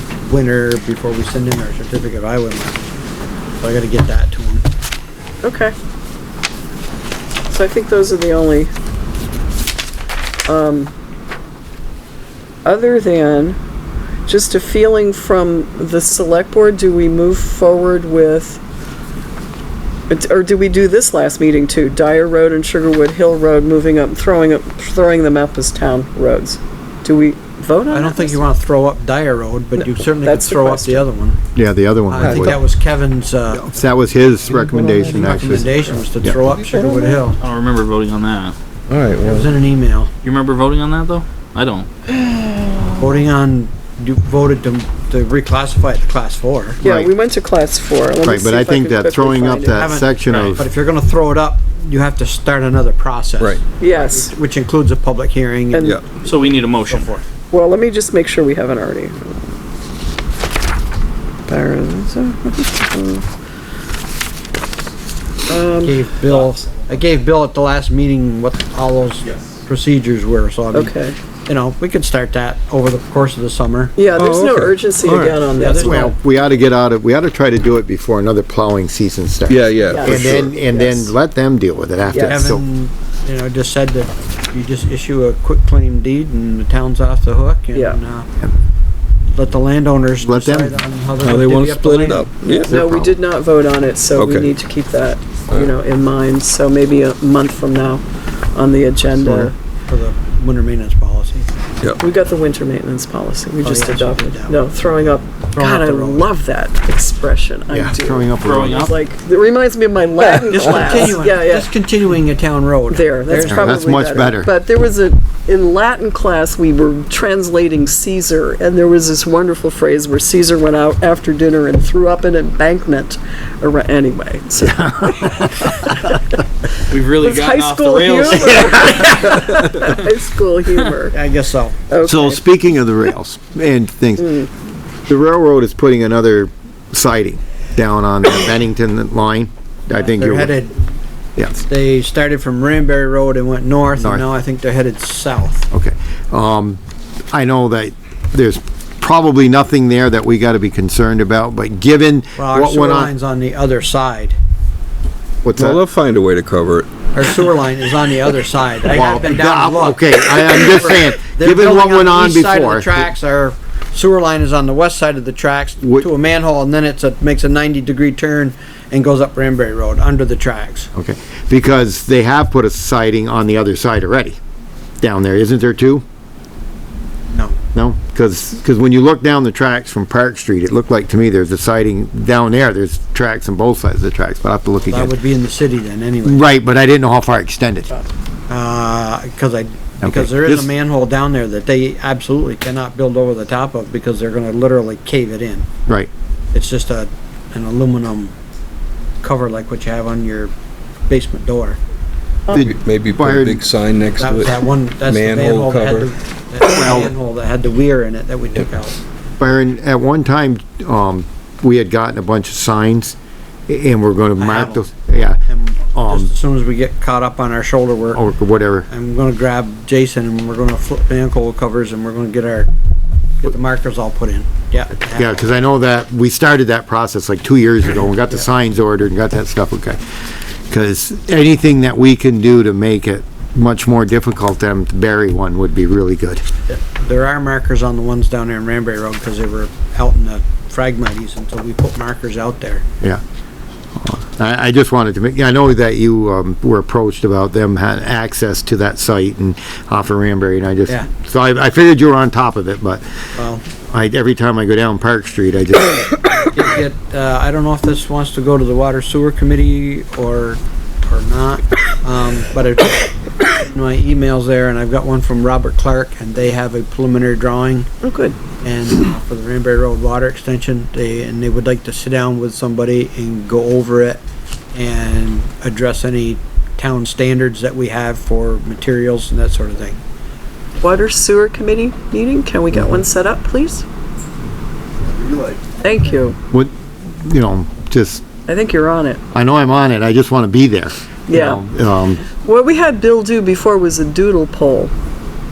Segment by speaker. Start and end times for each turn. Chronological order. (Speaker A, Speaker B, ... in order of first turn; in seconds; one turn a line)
Speaker A: 0.2-2.9
Speaker A: 3.6-4.7
Speaker B: 5.4-5.8
Speaker B: 7.5-8.7
Speaker B: 10.5-10.9
Speaker B: 12.7-13.6
Speaker B: 14.3-18.6
Speaker B: 20.1-28.4
Speaker A: 27.9-31.4
Speaker B: 30.2-31.1
Speaker C: 31.6-32.6
Speaker A: 32.1-33.7
Speaker D: 32.2-32.6
Speaker C: 33.5-36.4
Speaker D: 34.5-35.9
Speaker A: 35.0-37.4
Speaker D: 36.5-37.0
Speaker E: 37.4-38.6
Speaker D: 38.9-39.5
Speaker A: 39.2-40.1
Speaker E: 40.2-41.9
Speaker B: 42.1-42.8
Speaker A: 43.0-46.8
Speaker C: 46.8-47.1
Speaker B: 46.8-50.0
Speaker C: 48.2-50.7
Speaker A: 49.7-55.9
Speaker B: 53.8-54.3
Speaker B: 55.7-56.0
Speaker D: 55.8-56.1
Speaker E: 56.2-57.1
Speaker A: 56.9-57.2
Speaker B: 57.5-59.4
Speaker B: 61.5-63.2
Speaker B: 65.5-66.0
Speaker A: 65.8-71.0
Speaker B: 70.7-71.2
Speaker A: 71.5-74.0
Speaker B: 74.0-76.1
Speaker D: 74.1-75.5
Speaker A: 75.6-76.1
Speaker C: 75.8-82.6
Speaker D: 79.5-80.5
Speaker B: 79.9-80.1
Speaker A: 80.1-81.1
Speaker B: 82.1-82.5
Speaker A: 82.2-88.3
Speaker B: 87.7-88.0
Speaker A: 89.3-92.3
Speaker C: 90.2-90.7
Speaker D: 91.2-92.8
Speaker B: 92.4-99.5
Speaker C: 92.6-93.2
Speaker D: 94.2-94.5
Speaker C: 99.2-99.5
Speaker A: 99.9-101.6
Speaker B: 102.0-111.7
Speaker A: 103.6-106.3
Speaker C: 107.7-108.9
Speaker E: 108.4-108.9
Speaker A: 110.4-113.7
Speaker B: 112.9-126.2
Speaker C: 113.4-114.5
Speaker C: 124.6-125.9
Speaker E: 126.9-129.9
Speaker B: 127.2-131.2
Speaker C: 128.7-129.4
Speaker A: 131.1-131.8
Speaker B: 131.9-132.4
Speaker C: 132.0-140.6
Speaker B: 134.2-134.5
Speaker A: 140.2-140.8
Speaker C: 141.4-141.6
Speaker A: 141.7-145.7
Speaker C: 144.0-144.2
Speaker C: 145.7-146.8
Speaker C: 147.3-153.1
Speaker A: 152.4-154.4
Speaker C: 155.4-155.8
Speaker D: 155.6-156.9
Speaker A: 157.1-170.9
Speaker C: 158.9-163.1
Speaker C: 165.8-166.1
Speaker C: 170.9-174.4
Speaker C: 175.0-176.0
Speaker C: 177.7-185.1
Speaker A: 184.8-186.4
Speaker C: 186.2-187.9
Speaker A: 188.5-195.7
Speaker C: 190.0-190.7
Speaker A: 196.5-198.3
Speaker A: 199.2-200.5
Speaker A: 201.1-201.8
Speaker C: 202.5-203.6
Speaker D: 202.5-206.1
Speaker A: 204.2-209.0
Speaker C: 206.7-207.1
Speaker C: 209.4-213.2
Speaker C: 213.7-216.3
Speaker A: 214.4-214.9
Speaker A: 215.5-218.2
Speaker C: 218.2-218.9
Speaker A: 218.9-222.7
Speaker A: 223.4-225.5
Speaker C: 225.1-230.0
Speaker C: 230.7-236.4
Speaker A: 236.7-242.8
Speaker C: 244.0-253.0
Speaker A: 253.4-253.6
Speaker C: 253.8-256.1
Speaker A: 256.4-267.9
Speaker B: 268.0-268.4
Speaker A: 268.6-274.2
Speaker A: 274.7-280.0
Speaker B: 280.8-283.9
Speaker C: 282.7-283.0
Speaker B: 285.8-286.4
Speaker C: 286.5-288.2
Speaker B: 288.5-289.2
Speaker C: 289.3-292.2
Speaker B: 291.3-291.6
Speaker B: 292.3-294.9